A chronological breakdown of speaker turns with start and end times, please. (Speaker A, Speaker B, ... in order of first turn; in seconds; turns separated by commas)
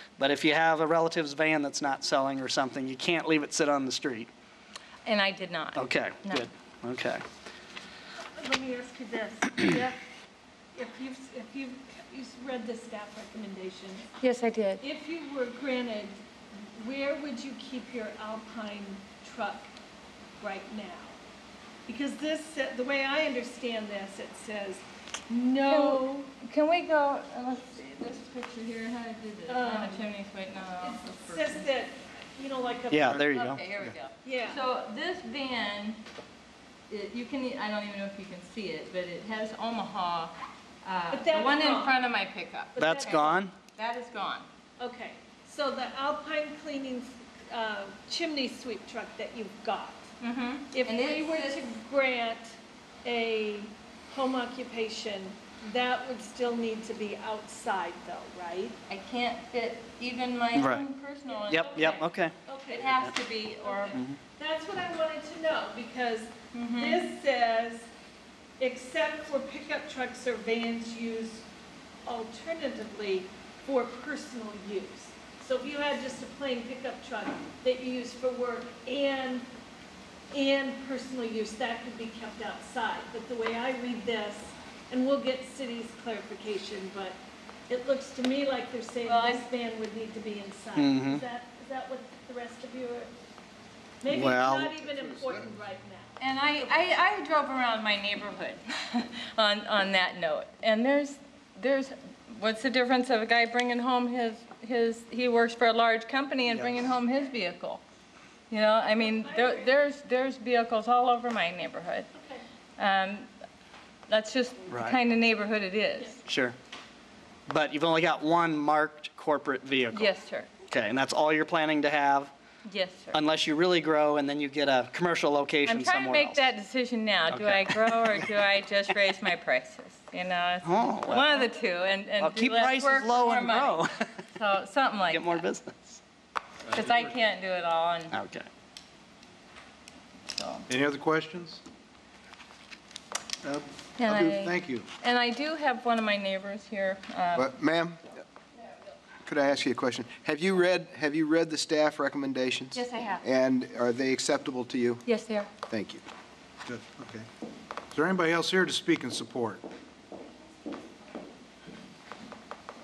Speaker A: 0.2-4.3, Speaker B: 5.0-6.5, Speaker A: 5.7-7.2, Speaker C: 8.3-10.0, Speaker C: 10.7-14.1, Speaker B: 14.2-14.8, Speaker C: 14.8-19.7, Speaker C: 20.4-21.2, Speaker C: 21.9-26.3, Speaker B: 25.7-31.7, Speaker C: 29.5-30.0, Speaker C: 30.8-33.2, Speaker A: 32.9-33.6, Speaker B: 33.3-36.0, Speaker C: 34.2-34.6, Speaker B: 36.9-44.5, Speaker C: 41.1-42.0, Speaker C: 42.7-43.4, Speaker A: 42.8-43.5, Speaker C: 44.8-50.1, Speaker B: 50.2-51.6, Speaker C: 50.7-58.8, Speaker B: 58.9-62.0, Speaker A: 60.5-60.8, Speaker A: 61.5-62.4, Speaker C: 62.5-67.9, Speaker B: 62.7-64.0, Speaker B: 66.5-67.0, Speaker C: 68.6-71.5, Speaker C: 72.0-79.5, Speaker C: 80.3-93.1, Speaker B: 89.1-89.4, Speaker A: 90.7-91.2, Speaker C: 94.0-96.7, Speaker A: 94.1-94.7, Speaker D: 94.8-95.6, Speaker B: 96.2-107.8, Speaker B: 108.5-112.1, Speaker C: 108.8-109.7, Speaker C: 112.1-112.4, Speaker B: 112.8-113.3, Speaker B: 114.1-116.2, Speaker A: 114.7-115.0, Speaker A: 116.2-116.5, Speaker A: 117.5-120.1, Speaker B: 119.9-120.5, Speaker A: 120.7-122.3, Speaker B: 122.6-123.2, Speaker A: 123.1-126.4, Speaker B: 125.6-135.4, Speaker A: 127.3-128.3, Speaker A: 130.6-131.5, Speaker A: 132.2-134.1, Speaker A: 135.1-136.0, Speaker B: 136.7-138.2, Speaker A: 138.1-138.5, Speaker B: 140.3-140.7, Speaker E: 140.7-141.6, Speaker B: 144.0-147.5, Speaker E: 144.1-144.9, Speaker D: 147.3-148.2, Speaker D: 149.2-155.0, Speaker B: 152.7-153.2, Speaker B: 155.1-155.5, Speaker D: 155.7-156.0, Speaker E: 156.7-157.3, Speaker E: 157.9-159.6